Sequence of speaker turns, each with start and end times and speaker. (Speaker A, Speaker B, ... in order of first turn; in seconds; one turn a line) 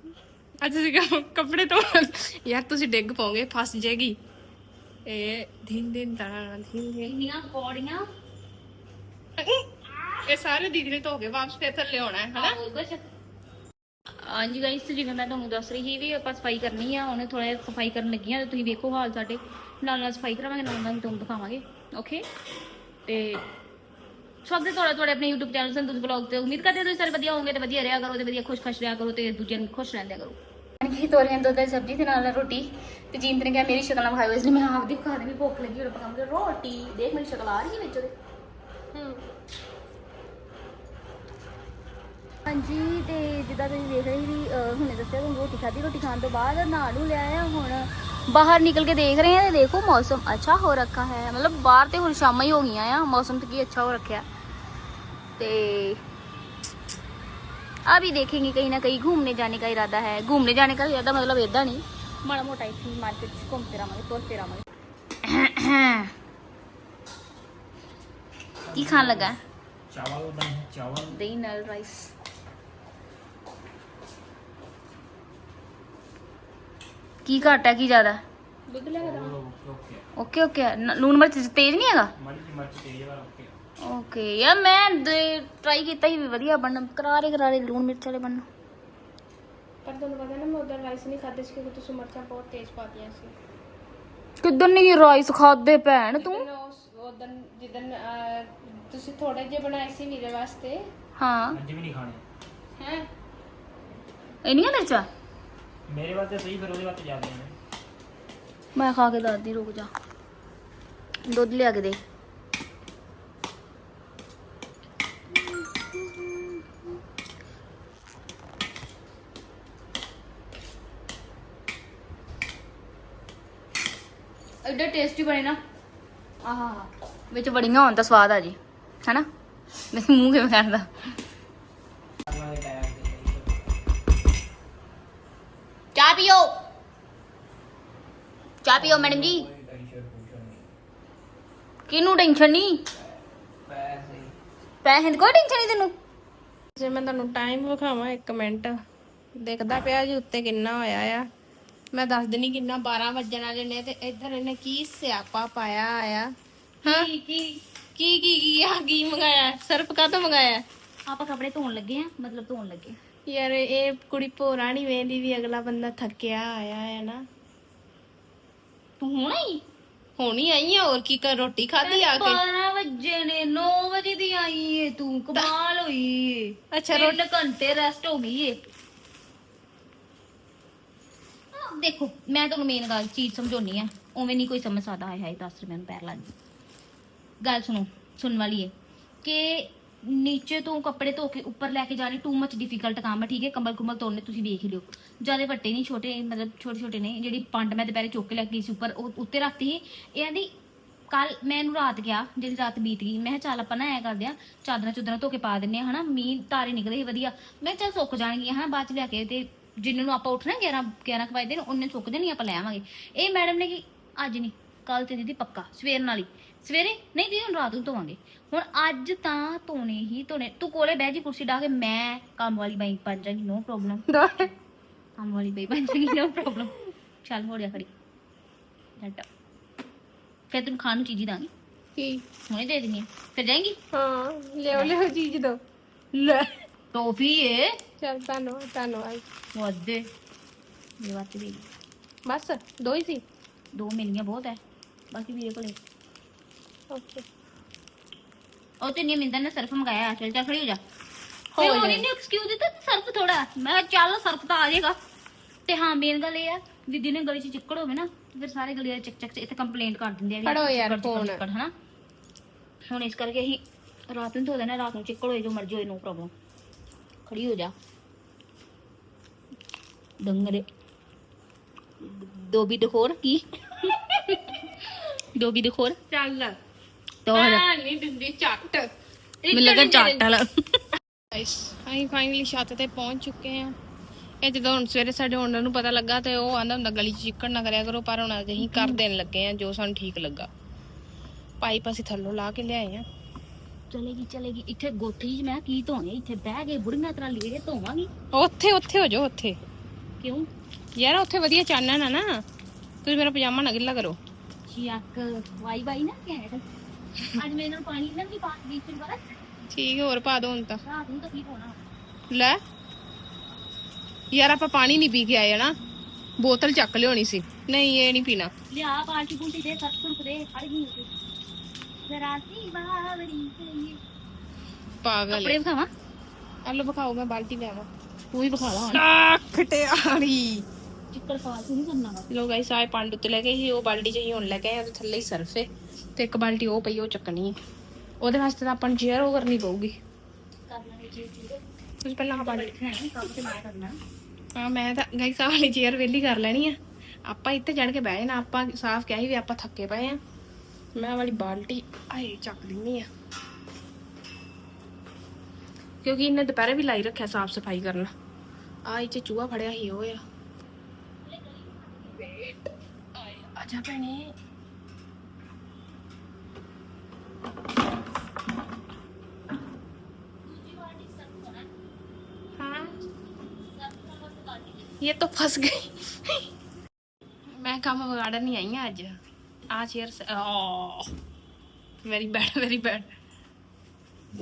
Speaker A: 0.6-4.2
Speaker A: 5.0-7.1
Speaker B: 7.0-8.0
Speaker A: 9.4-9.7
Speaker A: 10.2-12.6
Speaker B: 12.3-13.0
Speaker B: 14.2-22.2
Speaker B: 23.1-23.4
Speaker B: 24.4-38.1
Speaker A: 38.9-39.2
Speaker B: 42.5-54.2
Speaker B: 55.4-56.0
Speaker B: 57.9-64.6
Speaker B: 65.2-66.1
Speaker C: 68.7-69.3
Speaker B: 68.7-69.4
Speaker C: 69.9-71.2
Speaker B: 71.1-72.1
Speaker B: 77.2-78.2
Speaker A: 78.7-79.4
Speaker C: 79.0-80.0
Speaker B: 80.2-82.1
Speaker C: 82.2-83.5
Speaker B: 83.8-88.4
Speaker A: 89.8-93.3
Speaker B: 94.4-96.5
Speaker A: 96.2-100.8
Speaker B: 101.2-101.6
Speaker C: 101.5-102.2
Speaker A: 102.8-103.0
Speaker B: 104.4-105.1
Speaker C: 105.9-107.5
Speaker B: 108.7-109.9
Speaker B: 111.3-112.0
Speaker B: 115.3-116.7
Speaker B: 124.6-125.6
Speaker B: 126.4-129.2
Speaker B: 129.9-130.9
Speaker C: 132.3-133.7
Speaker B: 135.9-136.5
Speaker B: 138.6-139.4
Speaker C: 138.7-140.7
Speaker B: 141.9-142.8
Speaker C: 143.7-144.3
Speaker B: 144.8-145.9
Speaker A: 146.8-148.7
Speaker A: 149.3-151.2
Speaker A: 151.9-156.3
Speaker B: 156.8-157.6
Speaker A: 157.9-160.6
Speaker B: 161.1-162.9
Speaker A: 163.3-167.2
Speaker B: 169.0-169.6
Speaker A: 170.2-172.4
Speaker B: 171.8-178.6
Speaker A: 176.7-177.2
Speaker B: 181.5-186.3
Speaker B: 187.4-188.7
Speaker B: 189.2-200.5
Speaker B: 201.1-224.1
Speaker A: 224.1-224.5
Speaker B: 225.2-227.9
Speaker B: 229.0-229.3
Speaker B: 230.5-231.5
Speaker A: 231.9-232.2
Speaker B: 232.5-233.8
Speaker A: 233.9-235.6
Speaker A: 236.2-236.4
Speaker B: 236.9-237.8
Speaker A: 238.0-239.2
Speaker B: 239.5-240.1
Speaker B: 241.0-241.7
Speaker A: 242.2-243.2
Speaker B: 243.7-244.6
Speaker B: 245.1-245.8
Speaker A: 246.9-247.2
Speaker B: 248.8-250.8
Speaker A: 251.5-252.1
Speaker B: 251.6-254.9
Speaker B: 255.7-261.7
Speaker A: 260.4-261.4
Speaker B: 262.9-266.3
Speaker B: 267.2-267.7
Speaker B: 270.2-270.6
Speaker B: 272.0-274.6
Speaker B: 275.2-276.0
Speaker A: 276.1-276.5
Speaker B: 277.2-277.6
Speaker A: 277.3-278.9
Speaker A: 279.4-280.4
Speaker B: 279.5-280.4
Speaker A: 281.3-283.7
Speaker A: 284.4-290.5
Speaker B: 288.6-289.0
Speaker A: 291.6-293.0
Speaker B: 293.9-298.1
Speaker A: 298.3-299.6
Speaker B: 300.2-300.5
Speaker A: 300.9-302.3
Speaker A: 303.0-304.2
Speaker B: 304.7-306.6
Speaker B: 307.3-309.2
Speaker A: 309.7-310.8
Speaker B: 310.8-311.8
Speaker A: 314.3-315.7
Speaker A: 316.4-318.5
Speaker B: 318.7-321.1
Speaker B: 322.1-324.0
Speaker A: 325.0-325.6
Speaker B: 325.3-325.9
Speaker A: 326.6-327.9
Speaker B: 328.3-329.0
Speaker A: 328.9-330.6
Speaker B: 331.1-332.3
Speaker A: 332.3-337.6
Speaker A: 338.2-339.9
Speaker B: 340.7-341.6
Speaker A: 342.0-342.7
Speaker B: 342.3-344.0
Speaker A: 344.6-350.2
Speaker A: 350.9-353.1
Speaker A: 356.0-358.1
Speaker A: 358.9-360.2
Speaker B: 361.2-362.4
Speaker A: 363.1-364.3
Speaker B: 370.4-371.7
Speaker A: 372.6-372.9
Speaker B: 373.7-374.9
Speaker A: 375.0-376.4
Speaker A: 377.5-379.1
Speaker A: 379.7-381.1
Speaker A: 382.0-383.1